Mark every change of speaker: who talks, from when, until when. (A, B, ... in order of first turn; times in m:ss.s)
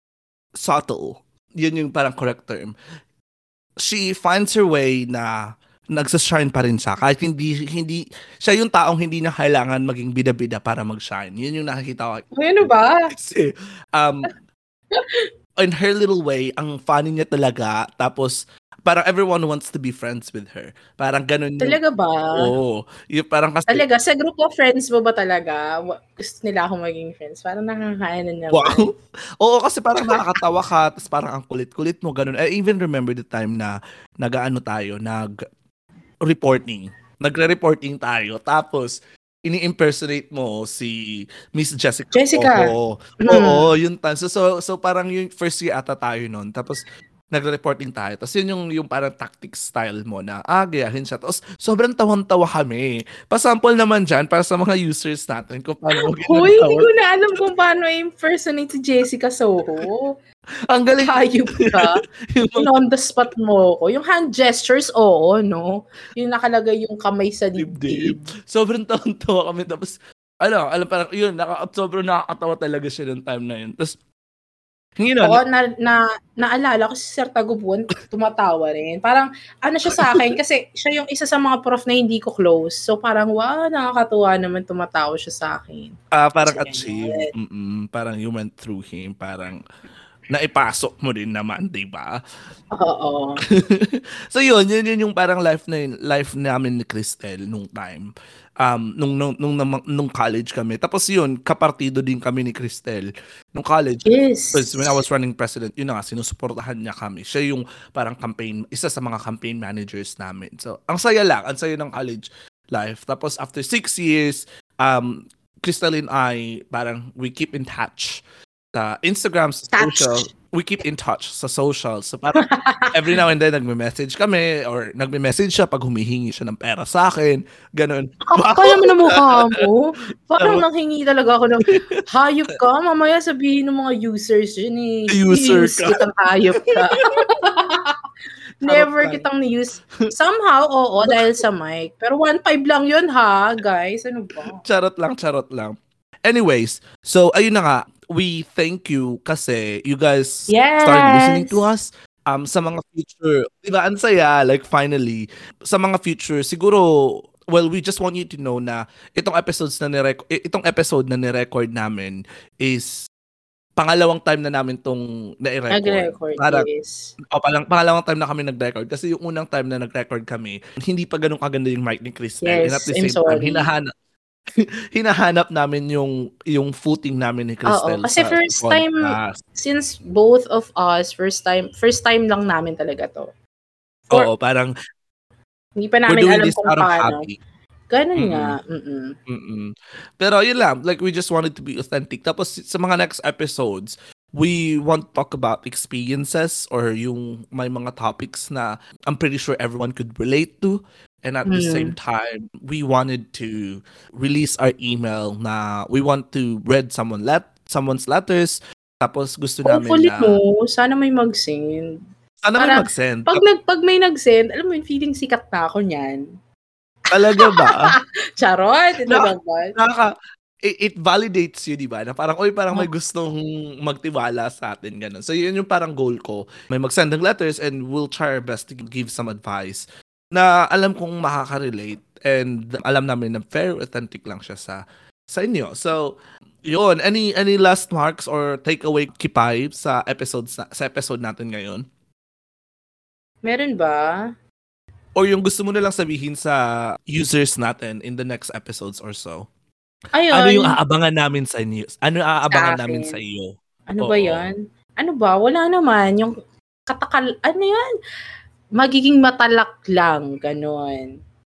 0:00.6-0:02.7 A
0:03.8-0:05.4 A
0:05.9-0:14.3 A
0:12.3-0:13.1 B
0:14.9-0:15.3 B
0:15.6-0:21.8 A
0:21.6-0:22.5 B
0:22.4-0:23.9 A
0:23.7-0:28.9 B
0:28.5-0:35.3 A
0:36.2-0:56.9 A
0:42.1-0:42.7 B
0:43.2-0:43.7 B
0:56.0-1:00.2 B
1:00.7-1:02.7 A
1:01.1-1:02.0 B
1:02.6-1:08.2 B
1:07.6-1:14.0 A
1:15.0-1:15.4 A
1:15.2-1:27.3 B
1:19.9-1:20.3 A
1:26.1-1:29.6 A
1:30.3-1:32.2 A
1:32.7-1:33.4 B
1:33.5-1:58.2 A
1:44.1-1:45.0 B
1:58.8-2:09.6 A
1:59.8-2:00.3 B
2:02.5-2:02.9 B
2:08.3-2:18.0 B
2:10.4-2:10.6 A
2:11.7-2:12.0 A
2:15.1-2:16.0 A
2:16.6-2:17.2 A
2:18.6-2:24.6 B
2:18.6-2:19.3 A
2:21.1-2:21.4 A
2:24.6-2:43.0 A
2:30.5-2:31.6 B
2:43.8-2:46.7 A
2:45.7-2:47.1 B
2:47.3-2:53.9 A
2:52.4-2:53.7 B
2:54.6-2:59.4 A
2:57.7-3:03.3 B
3:04.1-3:04.7 A
3:05.8-3:07.3 B
3:06.1-3:07.4 A
3:07.9-3:09.2 B
3:08.2-3:08.6 A
3:09.3-3:30.4 A
3:21.5-3:22.0 B
3:29.7-3:32.0 B
3:32.4-3:33.4 A
3:32.6-3:36.2 B
3:37.1-3:38.0 A
3:37.4-3:39.8 B
3:39.0-4:01.9 A
4:03.4-4:04.2 B
4:05.2-4:09.5 A
4:10.2-4:10.8 B
4:10.3-4:14.5 A
4:12.5-4:13.2 B
4:13.9-4:16.4 B
4:16.9-4:17.9 B
4:18.8-4:21.1 B